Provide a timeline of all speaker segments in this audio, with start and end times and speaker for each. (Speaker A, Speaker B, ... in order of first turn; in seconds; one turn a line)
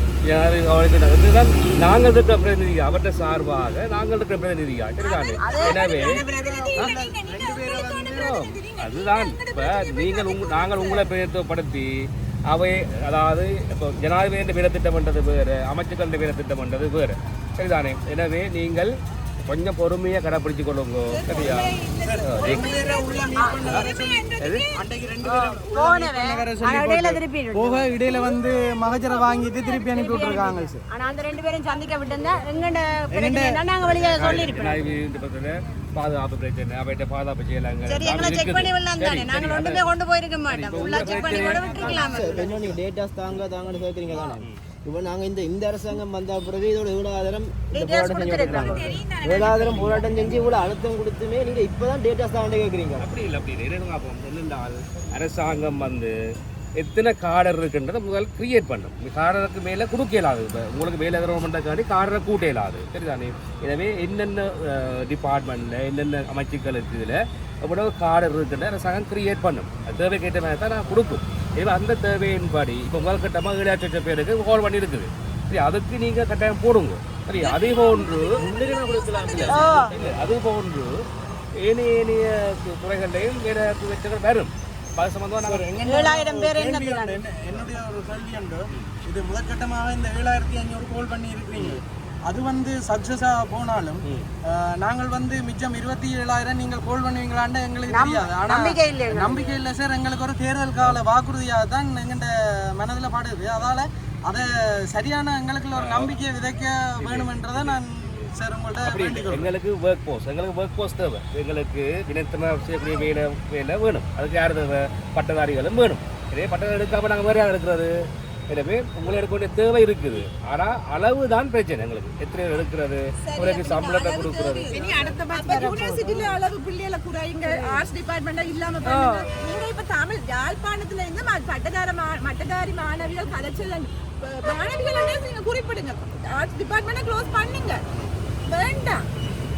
Speaker A: 0.3-6.2
Speaker B: 5.0-11.1
Speaker C: 5.4-5.8
Speaker D: 5.9-8.3
Speaker A: 8.1-11.9
Speaker A: 12.5-18.9
Speaker A: 19.5-23.2
Speaker B: 21.1-24.8
Speaker D: 22.0-30.8
Speaker C: 23.4-23.8
Speaker C: 25.2-28.2
Speaker B: 28.1-28.4
Speaker C: 29.1-34.9
Speaker D: 33.1-33.6
Speaker A: 33.8-39.9
Speaker C: 37.9-42.5
Speaker A: 40.5-42.1
Speaker D: 40.8-42.7
Speaker E: 41.8-53.1
Speaker C: 47.7-49.0
Speaker B: 48.3-50.5
Speaker A: 53.0-56.1
Speaker A: 56.8-78.4
Speaker B: 77.4-79.8
Speaker E: 78.4-80.1
Speaker A: 79.2-81.0
Speaker C: 79.5-79.9
Speaker A: 81.6-85.7
Speaker D: 85.4-109.5
Speaker C: 85.8-87.3
Speaker A: 91.5-91.8
Speaker C: 97.9-99.3
Speaker A: 105.7-106.2
Speaker A: 107.0-108.3
Speaker A: 108.8-117.9
Speaker A: 118.5-124.7
Speaker B: 123.2-137.8
Speaker C: 124.8-126.2
Speaker C: 127.4-127.9
Speaker C: 128.8-129.3
Speaker B: 138.5-139.1